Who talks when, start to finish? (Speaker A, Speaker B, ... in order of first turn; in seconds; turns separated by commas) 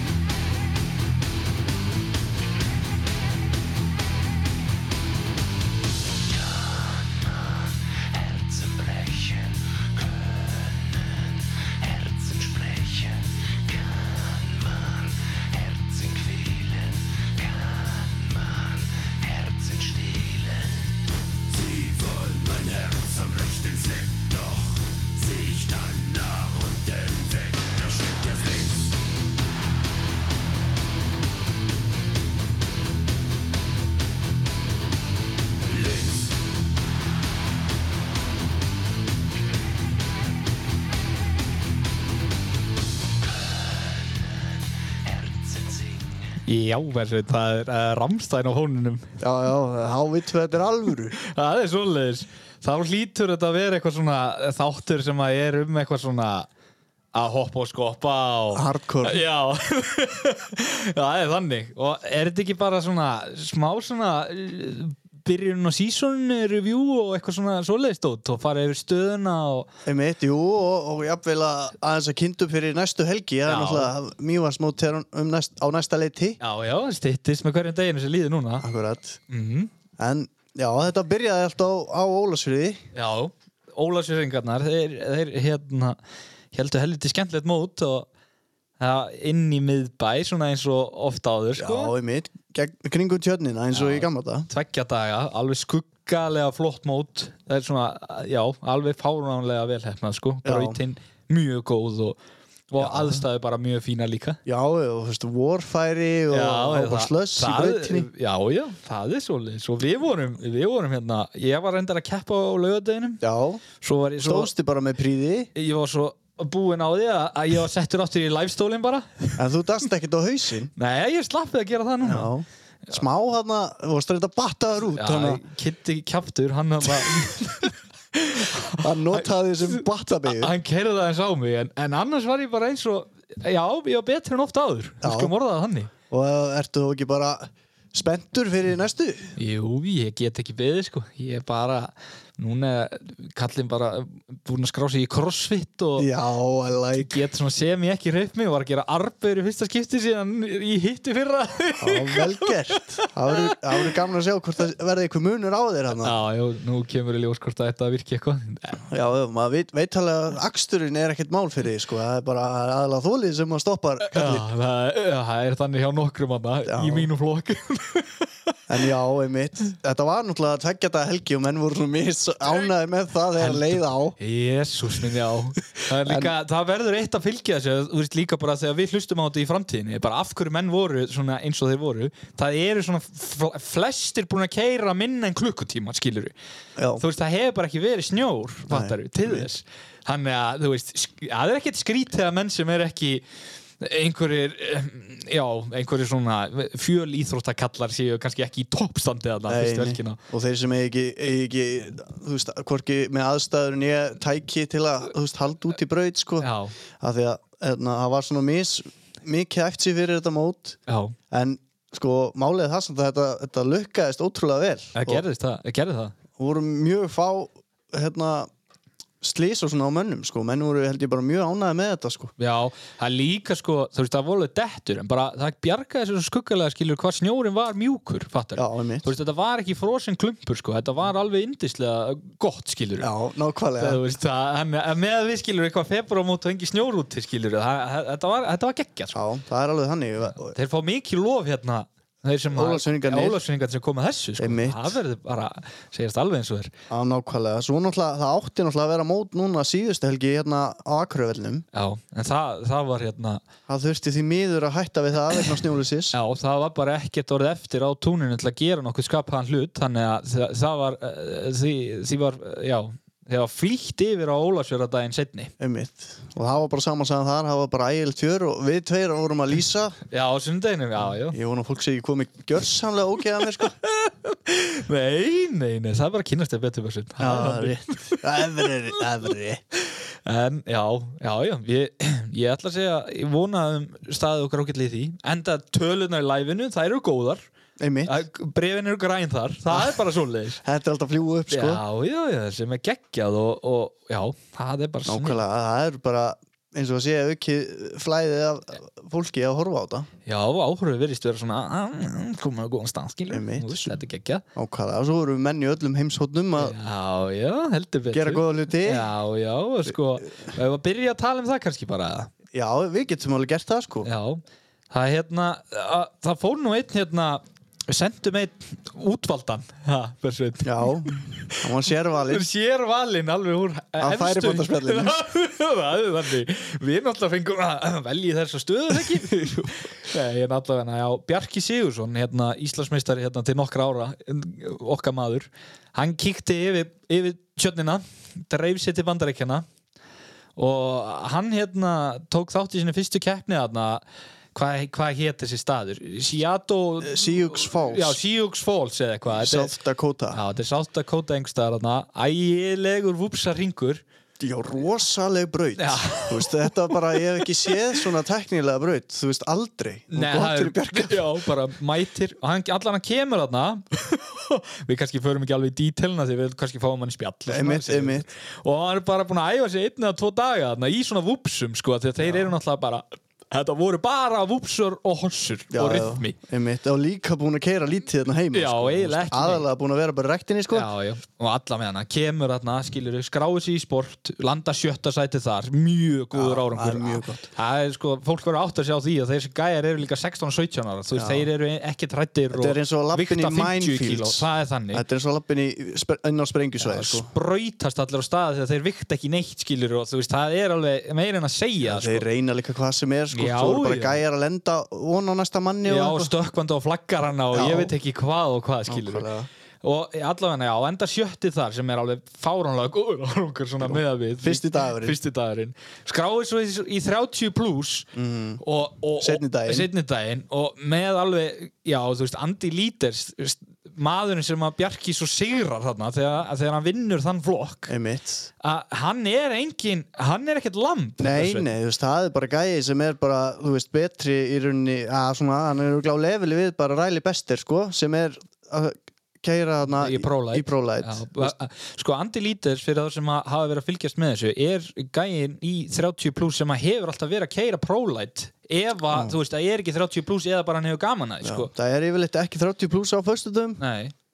Speaker A: 8.7-9.5, Speaker A: 12.6-13.1, Speaker A: 16.0-16.8, Speaker A: 19.8-20.3, Speaker B: 46.5-49.2, Speaker C: 49.2-51.2, Speaker B: 51.2-56.5, Speaker B: 57.1-69.7, Speaker C: 58.5-59.2, Speaker C: 69.8-76.4, Speaker B: 73.5-73.9, Speaker B: 76.4-78.7, Speaker C: 78.6-79.2, Speaker B: 79.3-79.7, Speaker C: 80.0-82.8, Speaker B: 83.0-86.0, Speaker B: 86.5-88.1, Speaker B: 88.8-91.9, Speaker C: 91.6-94.5, Speaker B: 93.7-102.2, Speaker C: 100.5-100.8, Speaker B: 102.7-104.4, Speaker C: 102.8-103.2, Speaker C: 104.5-108.1, Speaker B: 106.3-113.2, Speaker C: 113.2-113.6, Speaker B: 113.8-114.5, Speaker C: 114.2-115.5, Speaker B: 115.5-119.5, Speaker C: 119.4-120.7, Speaker B: 120.8-122.3, Speaker C: 122.0-125.4, Speaker B: 124.9-135.9, Speaker C: 128.7-130.5, Speaker C: 135.0-135.3, Speaker C: 136.1-139.3, Speaker B: 139.4-146.1, Speaker C: 146.0-147.2, Speaker B: 146.9-153.9, Speaker C: 151.8-156.1, Speaker B: 156.0-158.8, Speaker C: 158.9-164.5, Speaker B: 164.0-168.6, Speaker C: 166.7-167.1, Speaker C: 168.7-174.2, Speaker B: 173.4-186.3, Speaker C: 176.0-176.3, Speaker C: 186.8-187.0, Speaker B: 187.0-193.2, Speaker C: 188.7-189.5, Speaker B: 193.8-200.2, Speaker C: 199.5-206.5, Speaker B: 206.4-206.7, Speaker C: 207.0-210.8, Speaker B: 210.9-211.2, Speaker C: 211.3-215.2, Speaker B: 214.9-216.2, Speaker C: 216.4-218.5, Speaker C: 219.2-222.3, Speaker B: 222.4-233.1, Speaker C: 228.6-229.1, Speaker C: 233.0-234.0, Speaker B: 233.8-239.2, Speaker C: 239.1-240.6, Speaker B: 240.5-246.7, Speaker C: 242.5-243.4, Speaker C: 244.4-245.0, Speaker C: 246.9-251.6, Speaker B: 251.7-253.4, Speaker C: 253.7-256.2, Speaker B: 256.1-265.5, Speaker C: 265.6-270.0, Speaker B: 270.1-271.4, Speaker C: 271.3-273.7, Speaker B: 273.6-287.5, Speaker C: 277.2-279.6, Speaker C: 287.8-288.2, Speaker B: 288.1-290.6, Speaker C: 289.7-290.0, Speaker C: 290.6-291.8, Speaker B: 291.5-295.4, Speaker C: 295.1-300.1, Speaker B: 300.3-304.4, Speaker C: 303.3-304.0, Speaker C: 304.6-306.8, Speaker B: 306.6-312.3, Speaker C: 308.1-309.1, Speaker C: 312.5-314.1, Speaker B: 314.0-339.7, Speaker C: 320.6-322.5, Speaker C: 324.0-325.2, Speaker C: 329.3-329.7, Speaker B: 340.6-349.7, Speaker C: 347.0-348.2, Speaker C: 349.3-350.4, Speaker B: 350.3-354.0, Speaker C: 354.4-361.3, Speaker B: 355.8-358.1, Speaker B: 360.1-376.4, Speaker C: 367.5-368.3, Speaker C: 372.2-372.5, Speaker C: 375.7-380.9, Speaker B: 378.5-379.7, Speaker B: 380.7-395.0, Speaker C: 386.3-387.5, Speaker C: 391.1-391.5, Speaker C: 392.5-397.3, Speaker B: 396.8-402.3, Speaker C: 401.8-406.3, Speaker B: 403.3-404.2, Speaker B: 405.9-409.3, Speaker C: 407.5-407.9, Speaker C: 408.9-409.5, Speaker B: 409.8-418.1, Speaker C: 413.8-415.2, Speaker C: 418.1-418.6, Speaker B: 418.6-427.9, Speaker C: 419.2-419.9, Speaker C: 427.9-428.5, Speaker B: 428.6-431.7, Speaker C: 431.2-441.5, Speaker B: 440.0-451.7, Speaker C: 451.4-453.8, Speaker B: 453.8-454.1